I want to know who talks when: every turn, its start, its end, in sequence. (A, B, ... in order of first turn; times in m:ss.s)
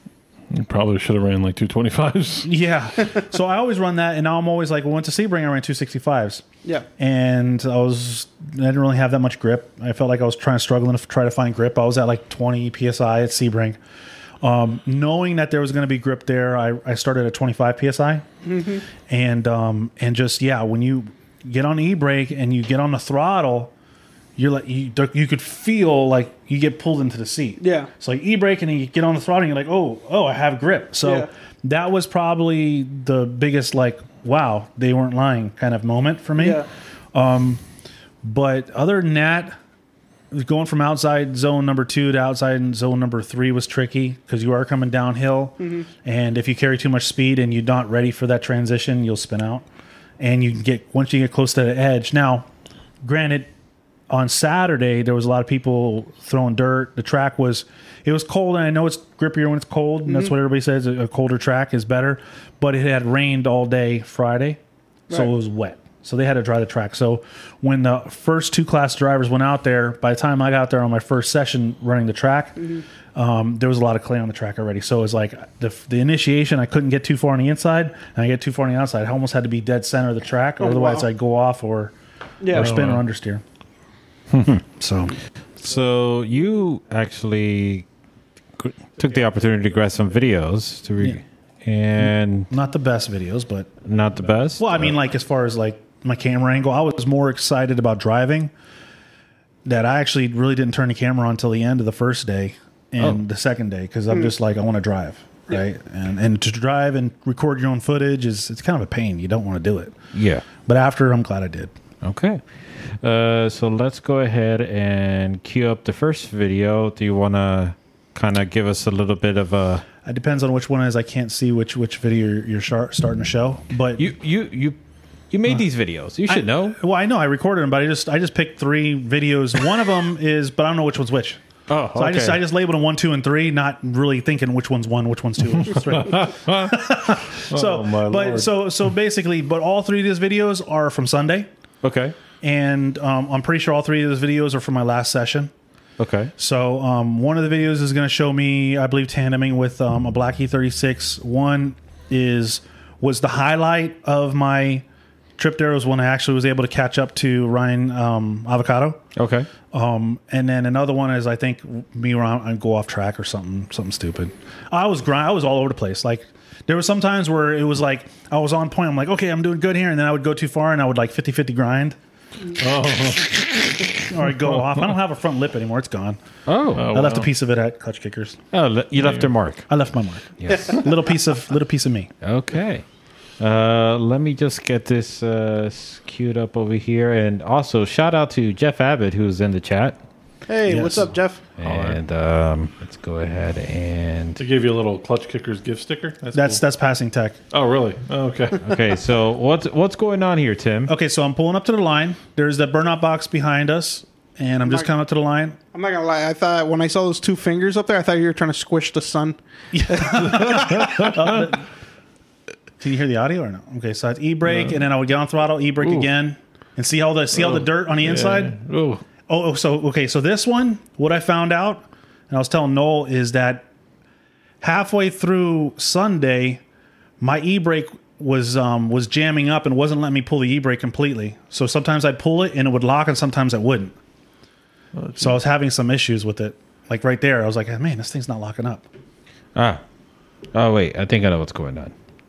0:00.5-0:02.5 A
0:02.4-0:06.4 B
0:07.0-0:13.8 B
0:14.4-0:18.2 B
0:18.4-0:18.8 C
0:19.1-0:23.7 B
0:24.4-0:37.6 B
0:27.6-0:27.9 C
0:31.0-0:31.3 C
0:36.4-0:36.7 C
0:38.2-0:39.6 B
0:40.3-0:49.6 B
0:45.6-0:45.9 C
0:50.2-0:52.5 B
0:53.0-0:53.5 B
0:54.1-1:04.6 B
1:00.1-1:00.3 C
1:05.1-1:12.6 B
1:12.6-1:12.8 C
1:13.1-1:21.9 B
1:20.6-1:21.1 C
1:22.4-1:22.7 C
1:22.5-1:23.4 B
1:22.5-1:23.0 A
1:24.3-1:24.6 D
1:24.5-1:25.2 B
1:25.6-1:27.8 D
1:28.6-1:32.5 D
1:32.0-1:33.7 B
1:33.8-1:35.0 D
1:34.6-1:38.5 B
1:39.6-1:50.0 B
1:50.1-1:50.4 D
1:50.6-1:51.7 B
1:52.0-1:52.4 D
1:53.0-1:59.8 D
2:00.0-2:04.0 B
2:04.0-2:04.8 D
2:05.3-2:06.8 D
2:06.3-2:11.4 B
2:11.7-2:12.4 D
2:11.9-2:21.5 B
2:15.6-2:18.5 A
2:21.8-2:22.2 D
2:22.4-2:25.5 B
2:26.0-2:26.3 D
2:26.4-2:34.8 B
2:35.4-2:39.0 B
2:39.2-2:39.5 D
2:39.7-2:52.0 B
2:52.6-2:54.7 A
2:54.1-2:56.2 B
2:56.4-2:56.9 D
2:56.7-2:57.3 A
2:56.9-2:58.4 B
2:58.5-2:59.7 D
2:59.0-2:59.3 A
2:59.7-3:02.1 B
3:00.4-3:00.8 D
3:02.2-3:02.8 D
3:03.4-3:10.0 D
3:10.5-3:11.4 C
3:10.7-3:11.1 B
3:11.6-3:14.4 D
3:11.6-3:12.0 A
3:14.4-3:16.6 A
3:16.3-3:17.4 B
3:17.5-3:18.7 A
3:18.6-3:20.9 D
3:20.9-3:25.6 B
3:24.6-3:24.9 C
3:25.7-3:31.1 C
3:29.7-3:31.6 B
3:30.2-3:31.5 A
3:32.8-3:38.6 B
3:34.4-3:34.8 A
3:35.8-3:36.1 A
3:37.3-3:39.0 A
3:39.3-3:43.6 B
3:44.6-3:46.6 B
3:47.2-3:54.0 B
3:54.9-3:55.4 A
3:55.2-3:58.8 B
3:59.5-3:59.8 D
4:00.5-4:01.9 D